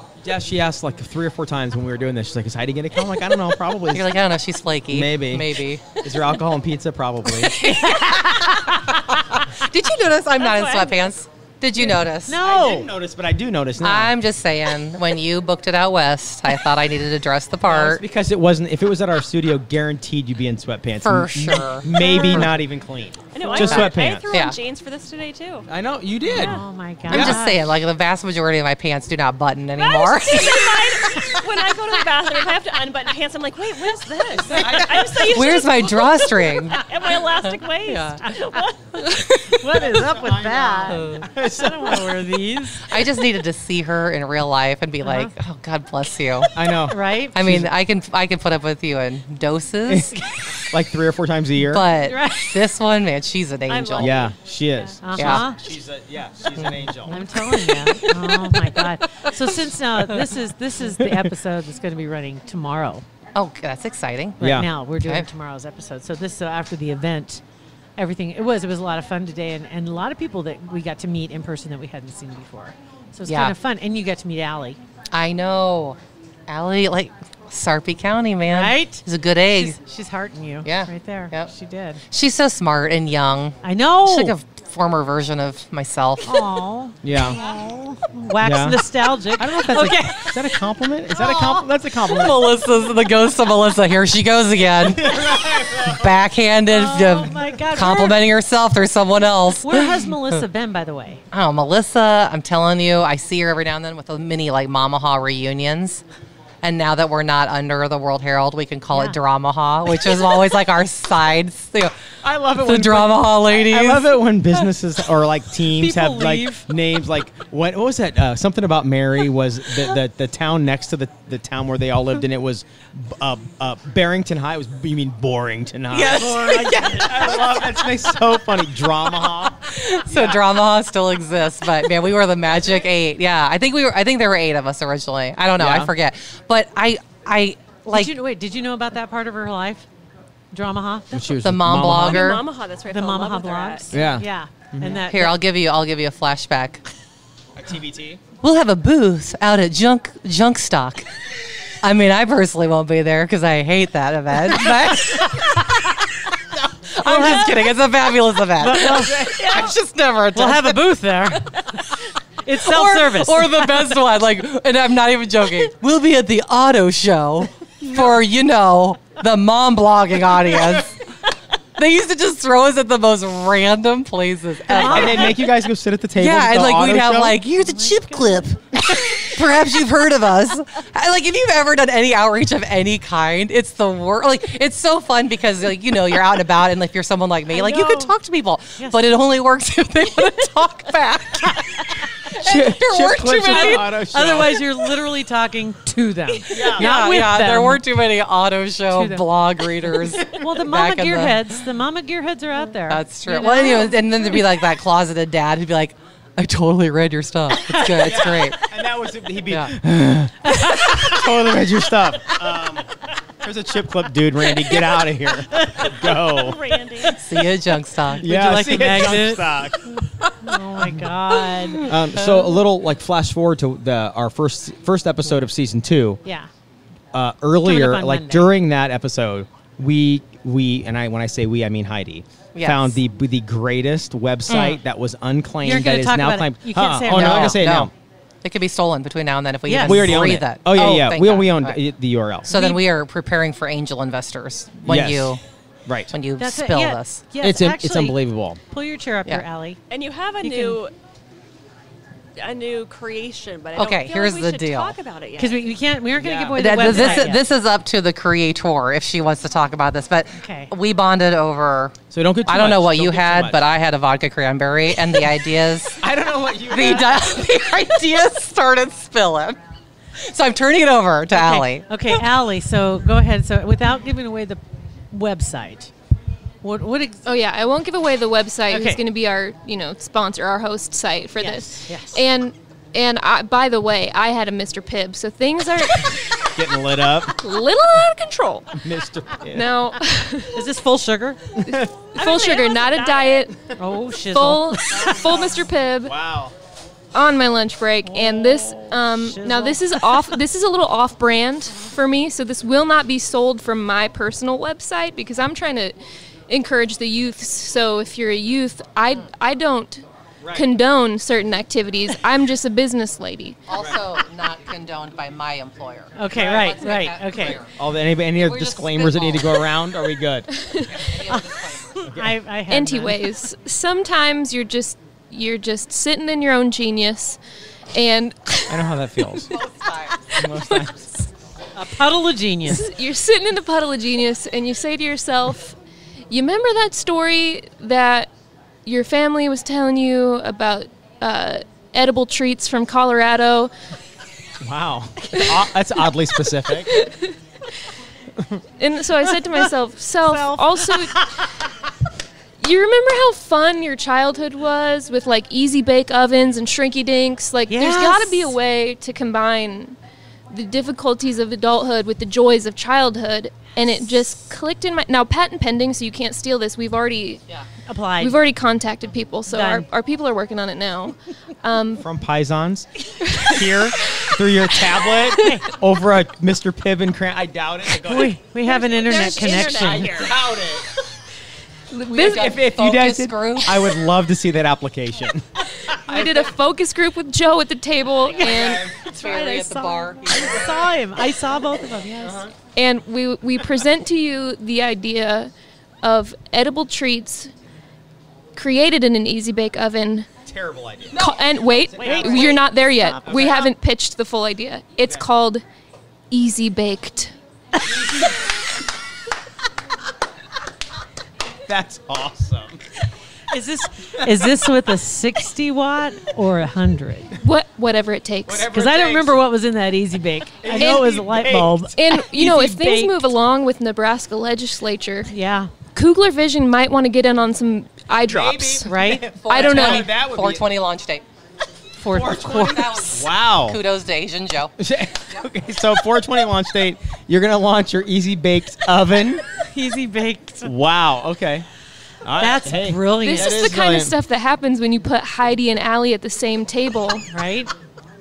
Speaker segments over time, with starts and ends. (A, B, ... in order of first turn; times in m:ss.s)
0:00.2-0:04.1 A
0:03.9-0:05.9 B
0:04.9-0:07.5 A
0:05.8-0:06.3 C
0:07.4-0:12.4 B
0:10.3-0:11.2 C
0:11.7-0:12.0 C
0:12.2-0:12.9 D
0:12.4-0:14.2 A
0:13.8-0:18.0 B
0:17.6-0:24.3 A
0:21.0-0:22.6 B
0:21.9-0:22.4 C
0:23.3-0:25.7 C
0:23.6-0:24.6 B
0:25.7-0:27.4 A
0:26.3-0:27.6 D
0:26.3-0:26.6 C
0:27.1-0:31.5 B
0:29.7-0:39.0 C
0:34.4-0:35.4 A
0:34.5-0:38.3 B
0:39.0-0:39.8 B
0:39.5-0:43.0 D
0:39.8-0:42.3 A
0:40.9-0:41.3 B
0:42.8-0:46.5 B
0:45.0-0:45.3 D
0:46.5-0:47.7 A
0:46.8-0:47.4 D
0:47.3-0:50.1 B
0:49.9-0:51.8 A
0:51.6-0:54.3 B
0:52.0-0:52.6 D
0:53.7-0:55.1 C
0:54.0-0:57.2 A
0:55.0-0:55.6 D
0:55.2-0:55.5 B
0:56.6-0:58.4 B
0:57.1-1:03.0 D
1:03.3-1:04.4 B
1:04.4-1:07.4 D
1:04.4-1:04.7 A
1:05.0-1:05.3 B
1:08.0-1:14.8 D
1:13.3-1:13.5 B
1:15.1-1:19.8 B
1:18.5-1:22.0 D
1:20.6-1:21.5 B
1:22.1-1:26.4 B
1:23.6-1:24.4 D
1:26.2-1:31.7 D
1:27.0-1:27.4 A
1:28.4-1:28.8 A
1:29.4-1:32.4 A
1:32.0-1:39.9 B
1:34.9-1:36.1 A
1:36.6-1:38.2 D
1:39.6-1:41.2 D
1:41.3-1:46.0 B
1:46.6-1:51.9 B
1:48.9-1:49.2 D
1:52.2-2:10.4 A
1:52.5-1:54.2 B
1:55.8-1:56.6 D
2:05.9-2:18.1 B
2:15.6-2:15.9 A
2:17.9-2:19.9 D
2:20.5-2:21.3 D
2:21.1-2:22.3 A
2:21.4-2:22.4 B
2:22.1-2:24.0 C
2:22.9-2:25.4 D
2:23.9-2:25.0 A
2:25.0-2:26.8 B
2:27.6-2:28.2 A
2:28.4-2:31.0 B
2:31.8-2:36.1 B
2:36.9-2:40.9 B
2:37.0-2:37.6 D
2:38.6-2:39.3 D
2:38.9-2:39.3 A
2:39.2-2:39.8 C
2:40.3-2:41.6 D
2:41.5-2:41.8 C
2:42.4-2:43.5 D
2:42.6-2:51.0 B
2:51.8-2:55.4 B
2:54.7-2:55.4 D
2:54.8-2:57.4 A
2:56.2-3:13.8 B
2:57.6-2:58.4 D
3:07.5-3:08.1 D
3:12.4-3:14.7 A
3:13.5-3:17.8 D
3:16.4-3:21.4 B
3:16.5-3:16.9 A
3:18.9-3:19.2 D
3:20.3-3:23.9 D
3:22.9-3:28.6 B
3:27.7-3:28.0 D
3:28.0-3:37.1 A
3:29.5-3:29.7 B
3:30.5-3:31.2 D
3:34.5-3:35.0 D
3:35.6-3:35.9 D
3:36.0-3:37.2 C
3:37.2-3:38.2 B
3:38.1-3:41.9 D
3:38.2-3:39.8 A
3:41.8-3:46.2 A
3:42.1-3:42.6 B
3:46.2-3:46.5 D
3:47.1-3:57.9 A
3:47.6-3:48.5 D
3:52.5-3:53.0 B
3:54.5-3:54.8 B
3:55.6-3:57.6 D
3:57.0-3:57.9 B
3:58.4-4:01.8 B
3:59.6-4:00.3 D
3:59.7-4:02.5 A
4:02.5-4:05.4 B
4:02.5-4:02.8 D
4:04.8-4:06.1 A
4:06.1-4:07.2 B
4:06.4-4:09.8 D
4:07.4-4:08.6 A
4:09.9-4:10.9 C
4:10.4-4:10.8 D
4:12.4-4:15.6 C
4:13.7-4:15.0 B
4:15.4-4:17.4 D
4:16.2-4:17.3 A
4:16.6-4:26.0 B
4:20.4-4:20.7 D
4:22.1-4:23.6 A
4:26.0-4:27.4 A
4:26.6-4:29.6 B
4:30.2-4:32.1 B
4:31.3-4:35.9 D
4:36.6-4:37.2 D
4:37.2-4:46.4 E
4:38.7-4:39.0 D
4:41.4-4:42.2 D
4:46.5-4:47.4 A
4:47.4-4:48.7 E
4:48.7-4:49.7 A
4:49.5-4:50.6 E
4:50.5-4:51.4 D
4:51.6-4:52.1 A
4:51.7-4:53.5 E
4:52.1-4:53.5 C
4:53.8-4:55.4 D
4:54.3-4:56.1 E
4:54.9-4:56.5 A
4:57.1-5:06.0 E
4:58.0-5:00.4 D
5:06.5-5:13.6 E
5:10.4-5:10.7 A
5:13.7-5:17.7 B
5:16.1-5:17.6 D
5:16.3-5:16.8 A
5:17.8-5:20.5 A
5:18.4-5:19.7 B
5:20.5-5:21.0 E
5:20.9-5:21.9 B
5:21.3-5:23.3 D
5:22.1-5:22.4 A
5:22.7-5:27.4 E
5:27.9-5:28.8 E
5:28.7-5:29.5 A
5:29.5-5:30.3 B
5:30.3-5:31.2 A
5:31.7-5:32.9 D
5:32.7-5:35.8 E
5:36.3-5:38.3 E
5:38.8-5:43.7 E
5:44.6-5:46.9 A
5:46.9-5:47.8 E
5:48.4-5:48.6 A
5:48.8-5:51.2 E
5:49.2-5:49.7 D
5:50.2-5:51.5 D
5:52.6-6:00.0 E
5:57.7-5:58.6 D
6:00.5-6:07.4 E
6:07.8-6:08.4 D
6:08.2-6:12.0 E
6:09.5-6:09.8 D
6:12.0-6:18.4 A
6:15.4-6:15.7 D
6:18.0-6:20.2 D
6:18.7-6:20.4 C
6:18.7-6:20.2 E
6:20.0-6:20.9 A
6:21.9-6:22.3 E
6:22.1-6:23.9 B
6:22.1-6:25.5 A
6:25.9-6:28.9 E
6:26.1-6:26.5 A
6:28.2-6:32.5 D
6:28.3-6:29.1 A
6:29.0-6:30.6 B
6:32.2-6:32.5 A
6:32.8-6:35.5 E
6:36.0-6:37.5 E
6:38.6-6:40.4 E
6:40.4-6:41.3 A
6:41.1-6:45.6 E
6:42.0-6:42.6 C
6:42.0-6:42.5 A
6:42.0-6:43.5 D
6:43.2-6:43.7 A
6:46.3-6:47.3 E
6:47.8-6:48.4 A
6:51.7-6:52.8 A
6:53.5-6:57.3 D
6:57.4-6:58.7 E
6:58.5-6:59.4 A
6:58.7-7:03.2 D
7:00.6-7:01.9 A
7:00.7-7:01.0 E
7:02.0-7:05.3 E
7:05.3-7:05.7 D
7:05.9-7:08.9 E
7:08.3-7:10.7 A
7:08.8-7:09.3 D
7:09.4-7:11.2 B
7:09.5-7:10.1 E
7:12.0-7:13.3 D
7:12.1-7:13.8 A
7:12.6-7:14.8 B
7:14.8-7:19.4 A
7:19.5-7:20.7 D
7:20.6-7:21.6 A
7:22.2-7:24.2 A
7:22.4-7:23.7 D
7:23.2-7:27.2 E
7:27.3-7:27.7 D